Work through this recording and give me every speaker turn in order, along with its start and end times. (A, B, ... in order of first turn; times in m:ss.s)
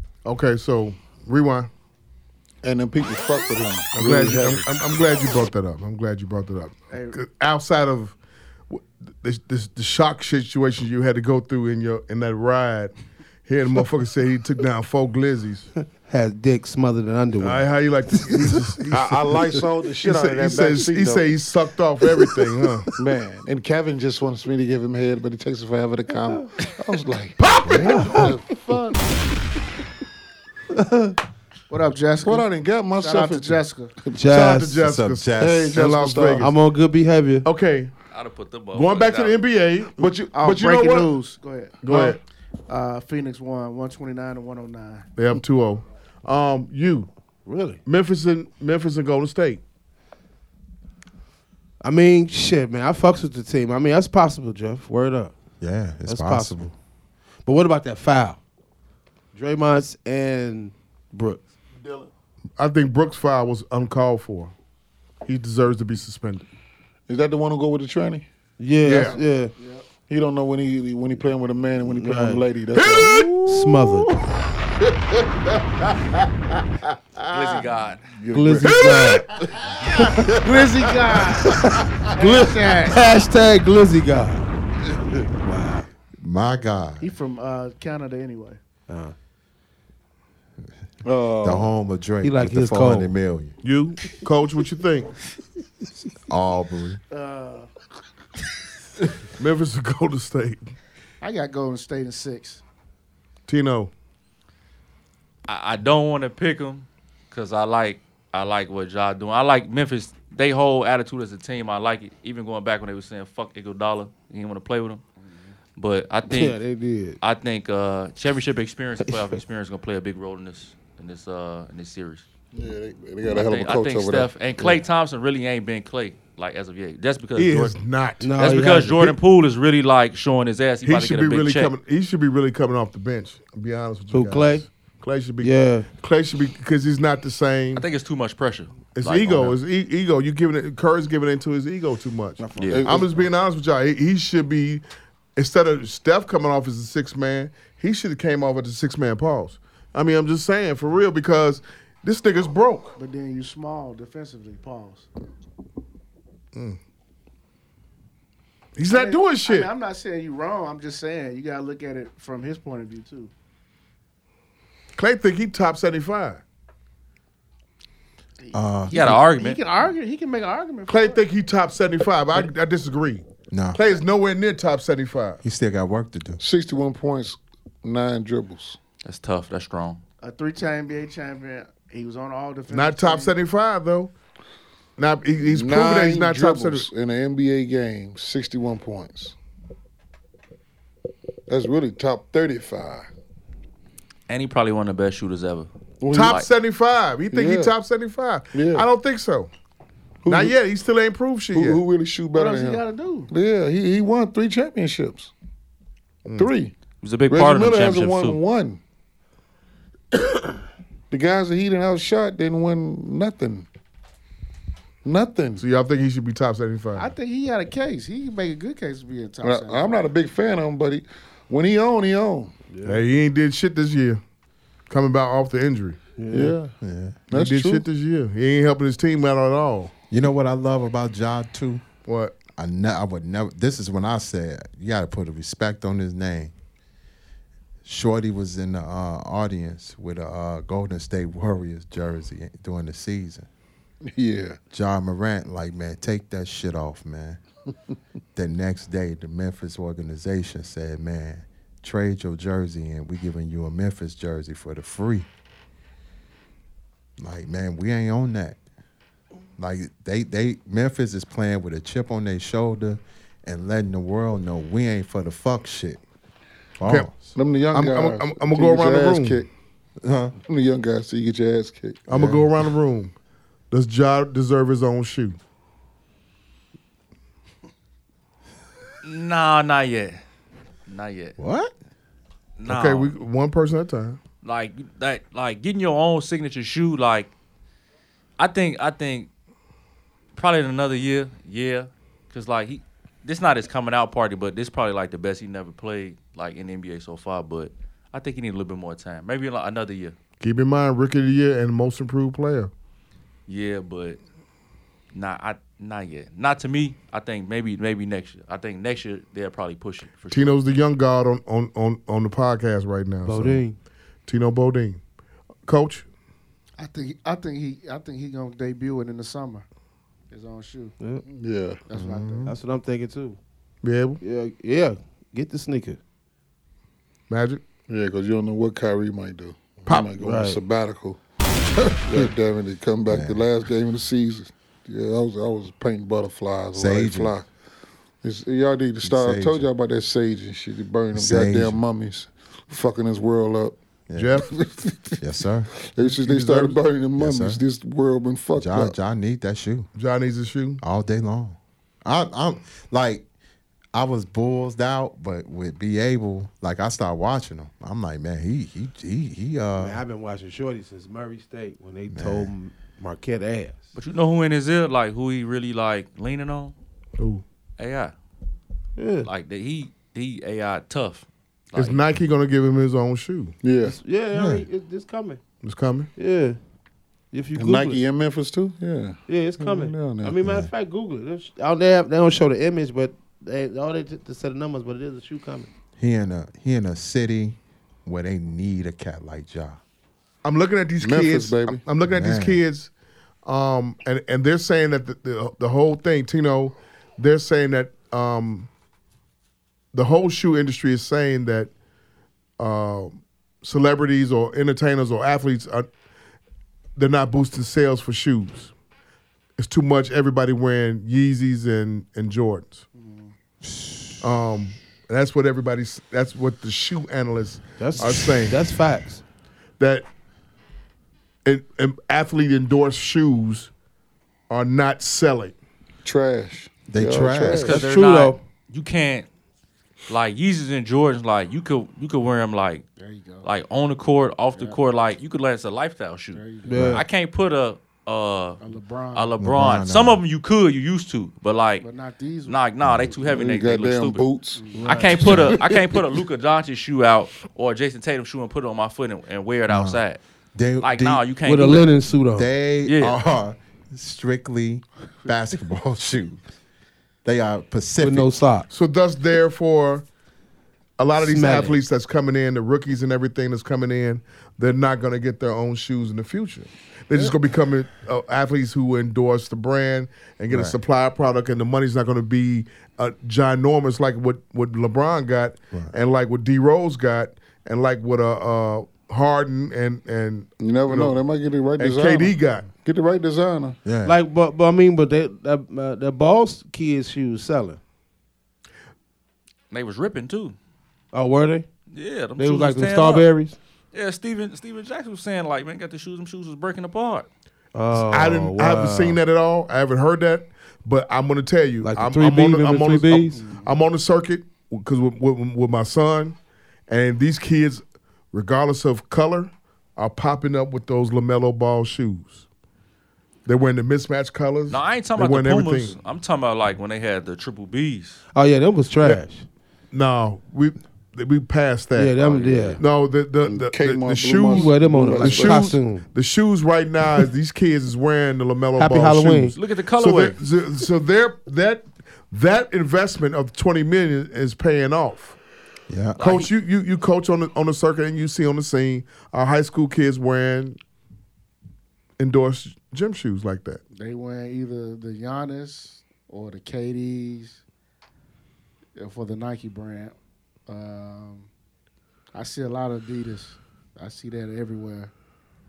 0:00.2-0:01.7 A
0:02.6-0:04.7 B
0:03.9-0:08.2 A
0:06.9-0:07.2 C
0:08.7-0:12.9 A
0:13.4-0:15.7 A
0:16.1-0:18.7 D
0:17.4-0:22.9 A
0:18.9-0:21.3 B
0:23.0-0:29.0 B
0:27.4-0:28.2 A
0:27.6-0:28.1 E
0:30.9-0:31.1 D
0:31.7-0:33.9 C
0:32.2-0:34.4 B
0:34.1-0:34.9 D
0:34.3-0:36.5 A
0:34.8-0:35.8 E
0:35.4-0:36.5 B
0:36.4-0:37.4 D
0:37.4-0:37.9 A
0:38.1-0:39.4 F
0:38.7-0:39.9 A
0:40.0-0:41.1 B
0:40.3-0:41.8 C
0:41.8-0:42.2 A
0:41.9-0:42.1 B
0:42.7-0:45.0 C
0:45.2-0:47.1 A
0:47.4-0:47.8 D
0:47.8-0:49.6 A
0:51.8-0:55.3 D
0:55.6-0:56.7 E
0:56.0-0:56.7 D
0:57.4-0:58.4 D
0:59.3-1:01.4 D
1:02.6-1:04.5 A
1:05.2-1:06.4 A
1:07.1-1:08.2 B
1:08.6-1:09.5 D
1:08.8-1:09.2 A
1:09.6-1:09.8 C
1:10.1-1:13.3 B
1:12.0-1:12.4 D
1:12.7-1:14.4 A
1:13.4-1:14.1 D
1:17.3-1:18.0 F
1:18.1-1:19.1 B
1:18.3-1:19.3 D
1:18.6-1:20.3 A
1:20.2-1:23.1 C
1:22.7-1:24.5 D
1:25.4-1:25.9 D
1:26.2-1:27.0 E
1:27.0-1:28.6 C
1:28.9-1:29.1 D
1:31.0-1:31.7 B
1:31.4-1:33.5 E
1:32.2-1:33.1 D
1:33.6-1:35.1 A
1:36.3-1:37.0 E
1:37.1-1:37.7 C
1:39.4-1:40.7 A
1:41.2-1:42.6 C
1:43.5-1:43.9 A
1:45.5-1:55.0 F
1:55.2-1:55.6 C
1:55.8-1:56.6 F
1:56.2-1:57.2 D
1:57.2-2:02.2 F
1:59.0-1:59.4 D
2:02.5-2:04.8 B
2:03.3-2:07.8 F
2:07.4-2:08.4 A
2:08.2-2:09.1 D
2:08.4-2:11.7 F
2:10.8-2:17.8 A
2:14.1-2:14.7 D
2:15.4-2:15.9 D
2:17.7-2:19.6 F
2:19.0-2:24.8 A
2:22.4-2:23.2 B
2:22.6-2:22.8 F
2:25.4-2:32.9 A
2:33.0-2:35.1 C
2:38.8-2:39.7 A
2:38.9-2:43.3 C
2:45.0-2:46.4 A
2:48.4-2:51.2 C
2:48.5-2:49.2 E
2:48.9-2:49.6 F
2:50.9-2:55.4 A
2:53.5-2:53.8 E
2:55.4-2:56.4 E
2:56.4-2:58.8 B
2:59.0-3:00.0 F
3:00.2-3:03.3 C
3:02.7-3:04.1 A
3:05.0-3:06.9 A
3:05.4-3:09.3 B
3:11.5-3:13.1 B
3:14.3-3:16.5 F
3:16.0-3:16.4 B
3:16.1-3:19.5 A
3:17.3-3:17.7 B
3:18.5-3:18.9 B
3:20.2-3:20.6 B
3:20.3-3:21.8 A
3:21.5-3:25.3 B
3:22.3-3:23.3 C
3:26.2-3:26.5 A
3:26.4-3:26.7 B
3:27.0-3:28.4 F
3:27.3-3:28.8 B
3:31.1-3:33.7 B
3:35.0-3:35.6 B
3:35.6-3:37.1 A
3:37.0-3:40.0 C
3:39.4-3:42.5 B
3:42.7-3:43.0 D
3:42.8-3:44.2 A
3:44.9-3:46.0 A
3:46.2-3:46.6 D
3:46.3-3:46.7 B
3:46.8-3:47.2 E
3:47.3-3:47.8 B
3:47.3-3:49.9 A
3:50.1-3:51.8 E
3:52.0-3:52.4 A
3:52.6-3:56.5 E
3:57.8-4:03.5 E
4:04.0-4:04.6 B
4:04.7-4:07.4 E
4:08.3-4:15.3 E
4:17.2-4:18.6 E
4:19.6-4:26.0 E
4:26.8-4:27.3 E
4:26.8-4:29.4 A
4:27.3-4:29.5 B
4:30.0-4:30.4 E
4:30.4-4:32.1 B
4:32.1-4:33.1 A
4:32.1-4:32.5 E
4:33.7-4:35.4 A
4:39.0-4:40.2 F
4:40.9-4:41.4 F
4:41.4-4:41.7 E
4:42.6-4:43.1 F
4:42.6-4:44.2 A
4:44.4-4:47.3 F
4:48.4-4:49.3 F
4:50.3-5:00.2 F
5:00.4-5:02.7 A
5:03.5-5:04.2 F
5:05.1-5:10.5 F
5:10.3-5:13.6 A
5:13.2-5:13.8 D
5:14.2-5:15.0 A
5:15.6-5:16.0 A
5:16.8-5:19.6 C
5:20.3-5:21.0 C
5:21.2-5:21.8 B
5:21.9-5:22.4 C
5:21.9-5:22.5 E
5:22.4-5:23.4 D
5:23.8-5:24.2 A
5:24.2-5:26.0 D
5:27.3-5:27.6 A
5:27.9-5:31.2 B
5:29.8-5:30.1 A
5:30.2-5:30.6 D
5:31.8-5:37.5 B
5:33.1-5:33.4 E
5:36.7-5:37.3 E
5:38.2-5:43.8 B
5:39.0-5:39.6 E
5:41.1-5:41.8 E
5:44.1-5:44.4 E
5:44.1-5:44.5 A
5:44.4-5:45.2 B
5:45.2-5:45.7 E
5:45.8-5:48.9 B
5:46.1-5:46.8 A
5:47.2-5:47.6 E
5:48.5-5:49.9 E
5:49.9-5:50.8 A
5:50.8-5:53.3 E
5:53.9-6:00.0 E
5:59.8-6:03.9 D
6:02.1-6:02.5 E
6:03.9-6:06.7 F
6:07.2-6:07.4 A
6:07.8-6:08.1 F
6:09.0-6:09.3 D
6:09.2-6:12.0 F
6:11.7-6:13.5 A
6:13.6-6:14.0 B
6:13.8-6:15.4 D
6:14.3-6:14.6 E
6:15.6-6:16.1 A
6:16.2-6:16.6 D
6:17.3-6:18.0 D
6:17.5-6:20.4 B
6:19.3-6:25.7 D
6:20.4-6:20.7 E
6:26.0-6:29.8 E
6:30.4-6:32.9 A
6:31.0-6:31.8 B
6:32.0-6:32.6 E
6:33.4-6:38.7 A
6:39.9-6:41.7 A
6:42.6-6:45.9 A
6:47.0-6:48.7 A
6:49.6-6:52.8 A
6:53.0-6:53.3 C
6:54.2-6:58.6 A
6:57.8-6:59.2 D
6:59.8-7:00.1 A
7:01.4-7:03.7 A
7:04.5-7:05.5 A
7:06.0-7:07.8 B
7:06.9-7:07.8 E
7:07.6-7:09.3 F
7:07.7-7:08.4 D
7:10.1-7:12.8 F
7:13.0-7:13.5 C
7:13.4-7:18.6 F
7:16.3-7:16.8 C
7:16.6-7:17.0 D
7:16.7-7:17.0 E
7:18.6-7:19.3 C
7:19.1-7:21.8 F
7:19.4-7:20.2 E
7:21.8-7:22.6 C
7:22.5-7:24.2 F
7:22.8-7:23.1 E
7:23.2-7:24.7 B
7:24.5-7:25.0 C
7:24.7-7:25.3 D
7:24.8-7:30.2 F
7:25.2-7:25.6 E
7:25.2-7:26.0 B
7:29.7-7:30.0 E
7:30.5-7:31.7 E
7:30.8-7:31.9 F
7:31.4-7:32.5 D
7:32.3-7:36.4 E
7:32.8-7:33.2 F
7:37.2-7:38.3 E
7:38.0-7:38.7 D
7:38.7-7:40.0 A
7:41.0-8:01.2 A
7:41.2-7:41.8 D
7:50.5-7:50.8 E
8:00.6-8:03.8 B
8:01.8-8:02.7 A
8:03.8-8:04.2 E
8:04.0-8:07.8 D
8:09.7-8:10.6 F
8:11.1-8:11.7 D
8:11.9-8:13.3 F
8:12.4-8:13.6 D
8:13.9-8:17.3 F
8:17.7-8:19.2 D
8:17.9-8:26.4 A
8:21.8-8:23.4 D
8:23.3-8:23.7 C
8:26.9-8:32.4 A
8:33.4-8:36.0 A
8:34.7-8:38.2 F
8:38.3-8:39.5 D
8:39.9-8:42.2 A
8:42.0-8:42.8 D
8:42.2-8:42.8 F
8:42.8-8:55.4 A
8:43.4-8:45.7 B
8:44.5-8:46.1 D
8:48.8-8:49.6 D
8:49.5-8:50.4 F
8:55.9-8:56.2 E
8:56.2-8:56.5 F
8:56.2-9:00.8 A
9:02.2-9:03.8 A
9:03.9-9:07.6 C
9:09.0-9:10.1 C
9:10.7-9:11.5 C
9:12.3-9:15.1 C